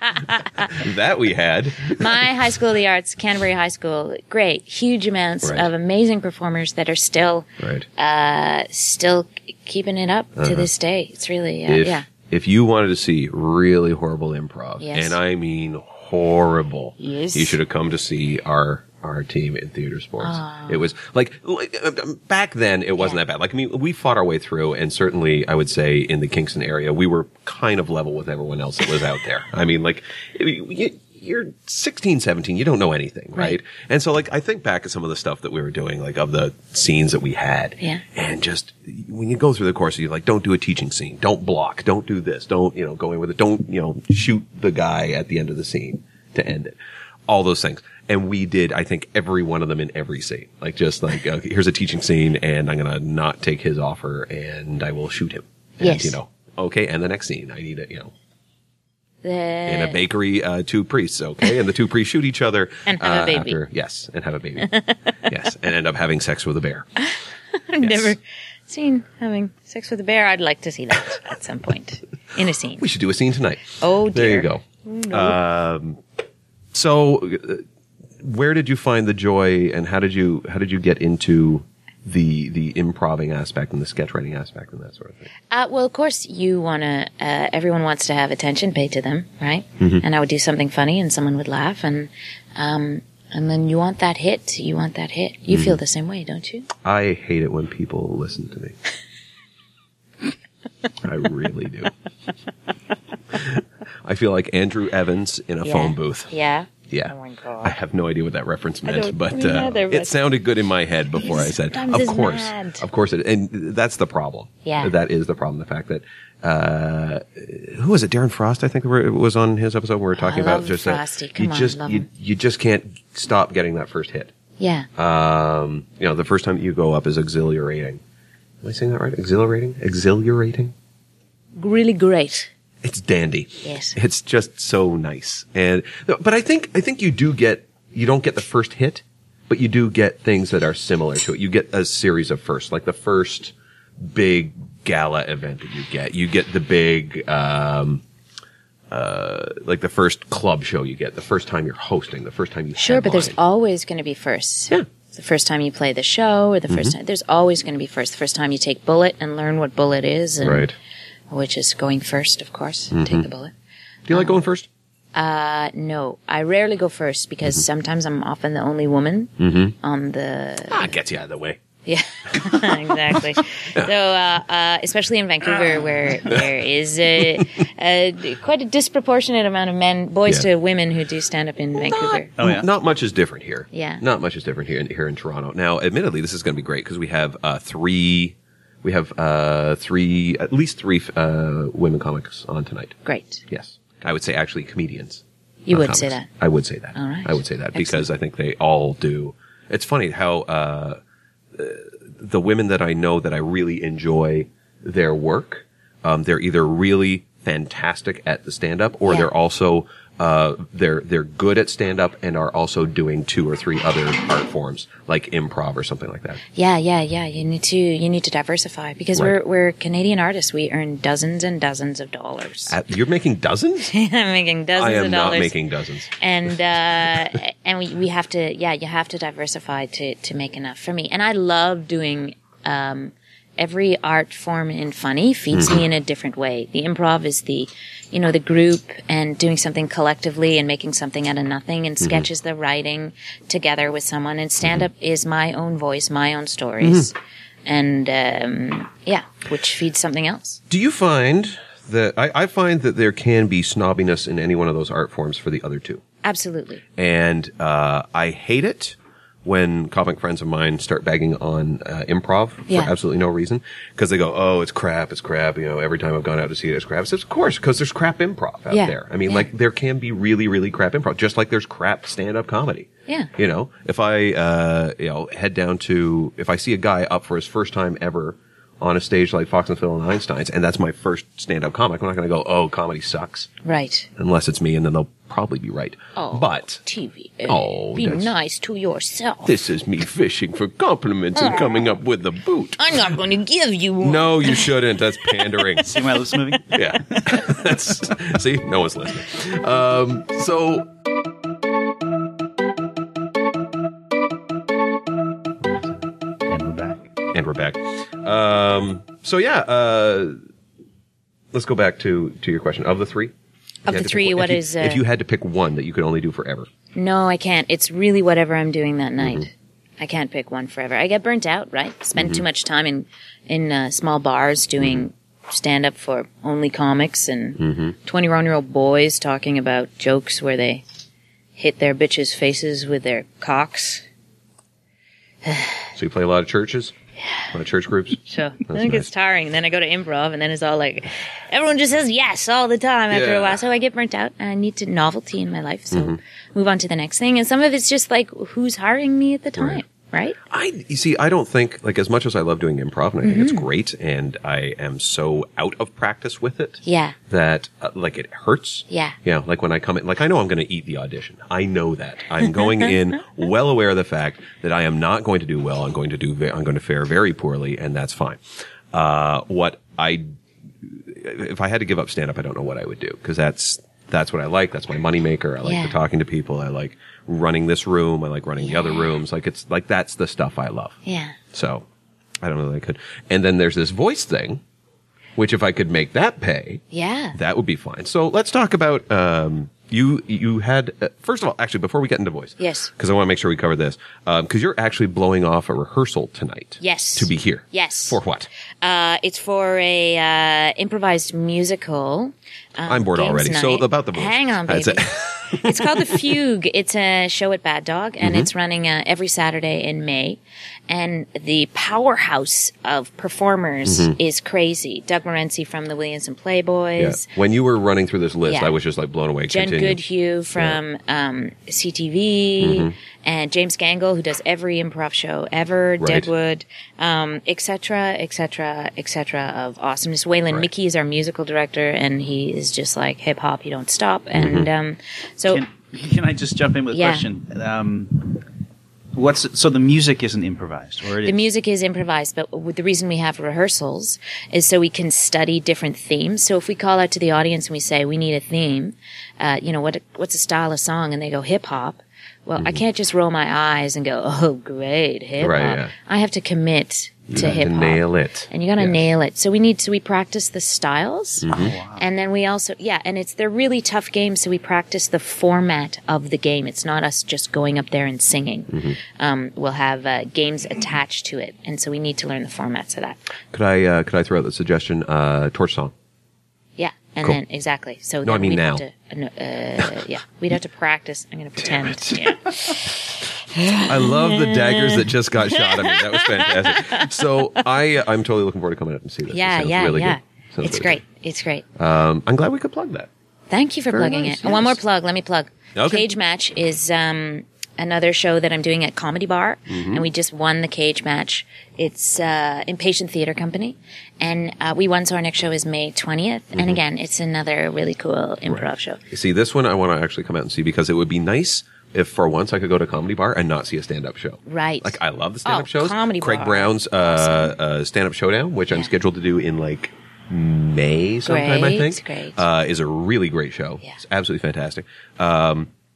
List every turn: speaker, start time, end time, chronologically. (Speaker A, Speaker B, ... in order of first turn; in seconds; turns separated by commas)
Speaker A: 0.3-2.3, Speaker B: 2.0-12.1, Speaker A: 5.4-5.7, Speaker A: 7.6-7.9, Speaker A: 10.4-10.7, Speaker A: 11.7-46.8, Speaker B: 14.8-15.2, Speaker B: 17.0-17.6, Speaker B: 20.2-20.8, Speaker A: 47.3-58.1, Speaker B: 55.8-56.2, Speaker B: 59.2-60.0, Speaker A: 59.7-64.7, Speaker B: 62.9-63.6, Speaker B: 64.7-65.1, Speaker A: 65.3-66.9, Speaker B: 67.0-72.8, Speaker A: 67.8-68.2, Speaker A: 72.8-76.0, Speaker B: 73.8-75.4, Speaker A: 76.7-77.6, Speaker A: 78.2-85.3, Speaker B: 85.5-96.7, Speaker A: 95.5-95.8, Speaker A: 96.8-98.8, Speaker A: 101.0-101.9, Speaker A: 103.3-106.3, Speaker B: 105.6-107.7, Speaker A: 106.9-124.3, Speaker B: 108.8-110.2, Speaker B: 111.2-112.8, Speaker B: 114.7-114.9, Speaker B: 120.2-122.1, Speaker B: 124.6-124.9, Speaker A: 125.0-128.0, Speaker A: 128.6-130.7, Speaker B: 131.6-132.5, Speaker A: 132.8-148.0, Speaker B: 133.6-134.0, Speaker A: 148.9-153.4, Speaker B: 152.8-160.7, Speaker A: 156.7-157.0, Speaker A: 160.4-160.8, Speaker B: 161.3-163.5, Speaker A: 162.9-163.3, Speaker A: 164.1-164.7, Speaker B: 165.1-170.9, Speaker A: 169.4-169.8, Speaker A: 170.7-171.6, Speaker B: 171.8-182.3, Speaker A: 172.3-173.9, Speaker A: 176.2-176.5, Speaker A: 177.2-177.4, Speaker A: 181.8-193.0, Speaker C: 182.4-182.7, Speaker B: 183.7-184.0, Speaker B: 193.1-193.4, Speaker A: 193.5-201.0, Speaker B: 195.7-196.3, Speaker B: 196.9-198.1, Speaker A: 201.5-216.4, Speaker B: 216.6-222.8, Speaker A: 222.7-223.9, Speaker B: 223.9-225.6, Speaker A: 224.8-227.3, Speaker B: 226.2-247.1, Speaker A: 235.5-235.8, Speaker A: 242.0-242.3, Speaker A: 246.8-247.1, Speaker B: 247.7-250.6, Speaker A: 250.7-256.0, Speaker B: 256.2-256.8, Speaker A: 257.0-283.5, Speaker B: 262.7-262.9, Speaker B: 268.7-269.5, Speaker B: 283.6-284.1, Speaker A: 284.2-286.8, Speaker B: 286.1-289.5, Speaker A: 287.4-288.3, Speaker A: 289.4-293.1, Speaker B: 291.4-291.8, Speaker B: 292.8-294.7, Speaker A: 294.0-296.1, Speaker B: 295.3-295.7, Speaker C: 295.9-297.5, Speaker A: 296.7-300.9, Speaker C: 306.5-307.1, Speaker A: 307.3-310.4, Speaker A: 311.5-313.3, Speaker B: 313.9-315.0, Speaker A: 313.9-316.7, Speaker B: 316.9-330.8, Speaker A: 319.2-319.5, Speaker A: 322.2-322.4, Speaker A: 324.8-325.1, Speaker A: 327.6-327.9, Speaker B: 331.6-334.0, Speaker B: 335.4-335.9, Speaker A: 336.0-336.9, Speaker A: 337.5-339.1, Speaker B: 338.3-350.4, Speaker A: 343.1-343.6, Speaker A: 345.9-346.2, Speaker A: 349.6-349.8, Speaker A: 350.5-368.4, Speaker B: 353.2-353.7, Speaker B: 356.8-357.2, Speaker B: 358.9-359.2, Speaker A: 368.9-370.3, Speaker A: 370.8-381.0, Speaker B: 375.6-376.0, Speaker B: 378.6-379.1, Speaker B: 381.1-381.4, Speaker A: 381.5-381.9, Speaker A: 382.4-384.6, Speaker A: 385.4-386.8, Speaker B: 386.9-387.4, Speaker A: 387.3-398.5, Speaker B: 392.6-392.9, Speaker B: 396.8-398.2, Speaker B: 398.8-417.3, Speaker A: 402.9-406.4, Speaker A: 408.2-408.5, Speaker A: 413.9-414.1, Speaker A: 417.0-420.0, Speaker B: 418.5-418.8, Speaker B: 419.5-435.6, Speaker A: 420.6-420.8, Speaker A: 422.6-422.9, Speaker A: 426.0-426.3, Speaker A: 434.4-434.7, Speaker C: 435.5-438.4, Speaker B: 436.9-437.3, Speaker C: 439.1-441.5, Speaker B: 441.2-473.2, Speaker A: 455.4-455.9, Speaker A: 457.3-459.1, Speaker C: 461.4-462.1, Speaker A: 461.4-461.8, Speaker A: 468.7-469.0, Speaker A: 473.5-475.9, Speaker B: 476.8-487.4, Speaker A: 478.2-478.8, Speaker A: 481.6-482.8, Speaker A: 483.7-491.0, Speaker B: 489.3-491.6, Speaker A: 491.8-493.1, Speaker B: 493.5-509.0, Speaker A: 493.9-494.8, Speaker A: 495.8-496.1, Speaker A: 499.7-500.1, Speaker A: 506.5-506.8, Speaker A: 508.5-525.7, Speaker B: 514.5-517.5, Speaker B: 521.2-522.4